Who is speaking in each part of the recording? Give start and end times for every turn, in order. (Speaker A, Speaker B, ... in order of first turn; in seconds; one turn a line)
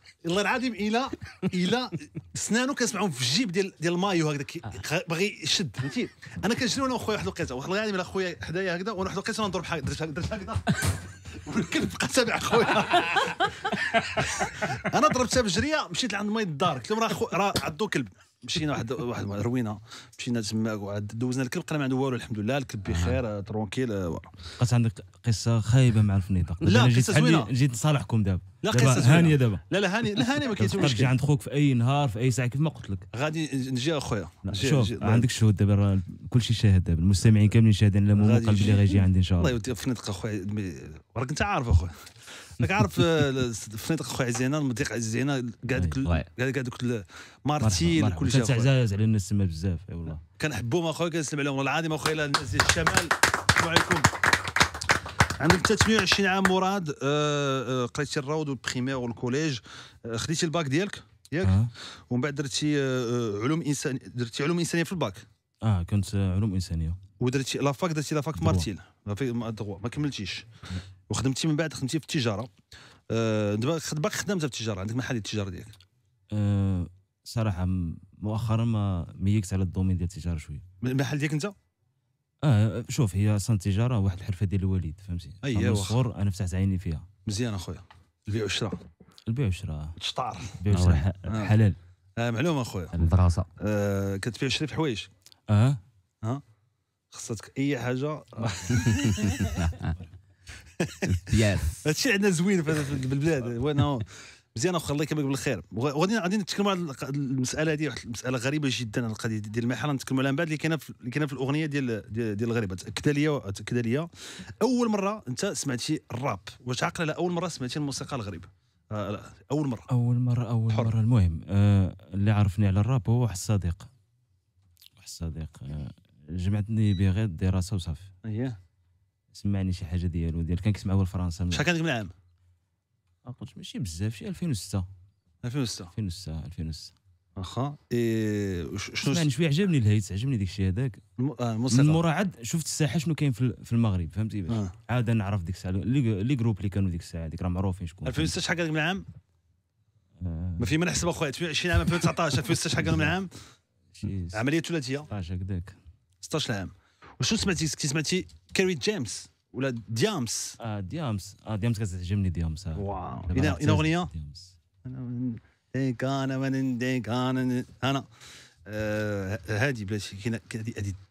Speaker A: 0.2-24.3
Speaker B: 22.9-23.2
Speaker C: 24.6-29.6
Speaker A: 26.6-27.5
Speaker A: 28.6-31.1
Speaker C: 30.5-33.1
Speaker A: 33.1-35.3
Speaker C: 34.5-39.6
Speaker A: 38.1-48.7
Speaker C: 45.7-46.0
Speaker C: 47.6-50.2
Speaker A: 50.4-54.1
Speaker A: 55.4-65.3
Speaker C: 61.4-61.7
Speaker C: 65.6-67.0
Speaker A: 67.2-70.5
Speaker C: 68.3-68.7
Speaker A: 71.1-72.5
Speaker A: 73.1-75.7
Speaker C: 76.3-80.7
Speaker A: 80.8-81.5
Speaker C: 82.4-87.1
Speaker A: 85.4-86.0
Speaker A: 87.3-88.8
Speaker C: 89.3-90.0
Speaker A: 90.0-90.6
Speaker C: 90.6-91.8
Speaker B: 90.7-91.1
Speaker A: 91.3-91.5
Speaker A: 92.2-93.0
Speaker B: 93.0-93.5
Speaker A: 93.6-95.1
Speaker C: 95.5-95.8
Speaker A: 97.1-99.5
Speaker C: 98.4-99.2
Speaker B: 98.7-100.0
Speaker C: 99.8-100.1
Speaker A: 100.8-114.1
Speaker B: 101.1-101.8
Speaker A: 114.6-119.9
Speaker C: 119.9-123.9
Speaker C: 125.0-128.1
Speaker A: 128.2-128.6
Speaker C: 129.3-131.7
Speaker A: 131.5-132.1
Speaker C: 133.2-134.9
Speaker A: 135.4-135.9
Speaker C: 135.9-136.9
Speaker A: 137.4-139.3
Speaker C: 139.0-141.0
Speaker A: 141.2-142.0
Speaker C: 141.7-148.4
Speaker A: 144.5-144.7
Speaker A: 148.1-149.1
Speaker C: 150.2-150.8
Speaker A: 150.6-153.3
Speaker C: 152.8-153.2
Speaker C: 153.9-154.4
Speaker A: 154.3-155.1
Speaker C: 155.1-155.8
Speaker A: 156.2-160.6
Speaker C: 160.6-164.6
Speaker A: 162.8-164.1
Speaker A: 164.8-168.1
Speaker A: 168.7-171.0